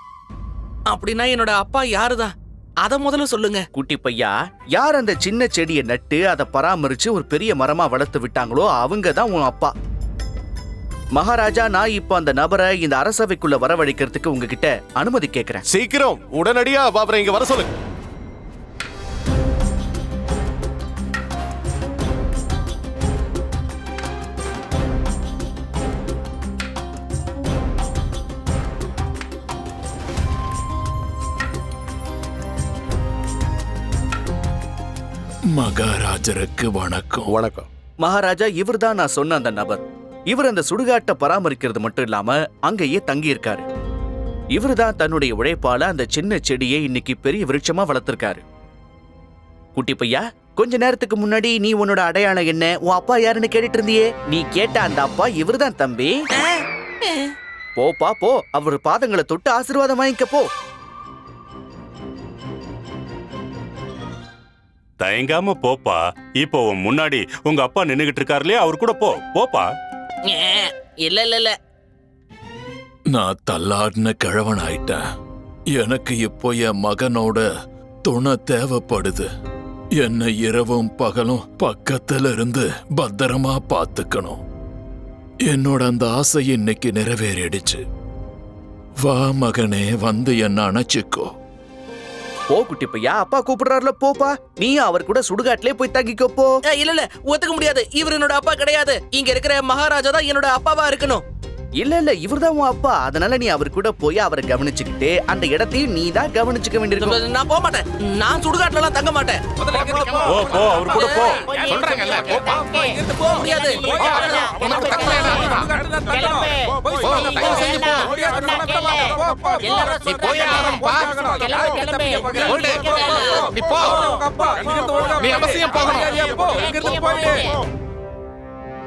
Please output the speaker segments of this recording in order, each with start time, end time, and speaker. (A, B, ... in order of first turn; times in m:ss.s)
0:00.9-0:03.6 A
0:03.7-0:09.7 B
0:11.1-0:15.6 B
0:15.7-0:17.8 C
0:35.5-0:37.3 D
0:37.3-0:37.7 C
0:38.0-0:43.6 B
0:44.5-0:48.4 B
0:49.8-0:56.2 B
0:56.4-0:57.3 A
0:57.8-1:00.5 B
1:05.0-1:09.7 E
1:10.3-1:11.6 A
1:13.1-1:15.0 D
1:15.7-1:17.5 D
1:18.0-1:19.3 D
1:20.0-1:24.4 D
1:25.5-1:27.8 D
1:29.0-1:31.3 D
1:32.5-1:36.5 B
1:36.7-1:41.2 A
1:41.8-1:47.2 B
1:47.0-1:49.4 A
1:49.7-1:50.5 F
1:50.3-1:51.4 E
1:51.6-1:52.7 F
1:53.2-1:54.1 A
1:54.1-1:55.8 F
1:56.9-1:58.1 F
2:00.0-2:01.3 F
2:02.2-2:04.1 F
2:05.2-2:06.2 F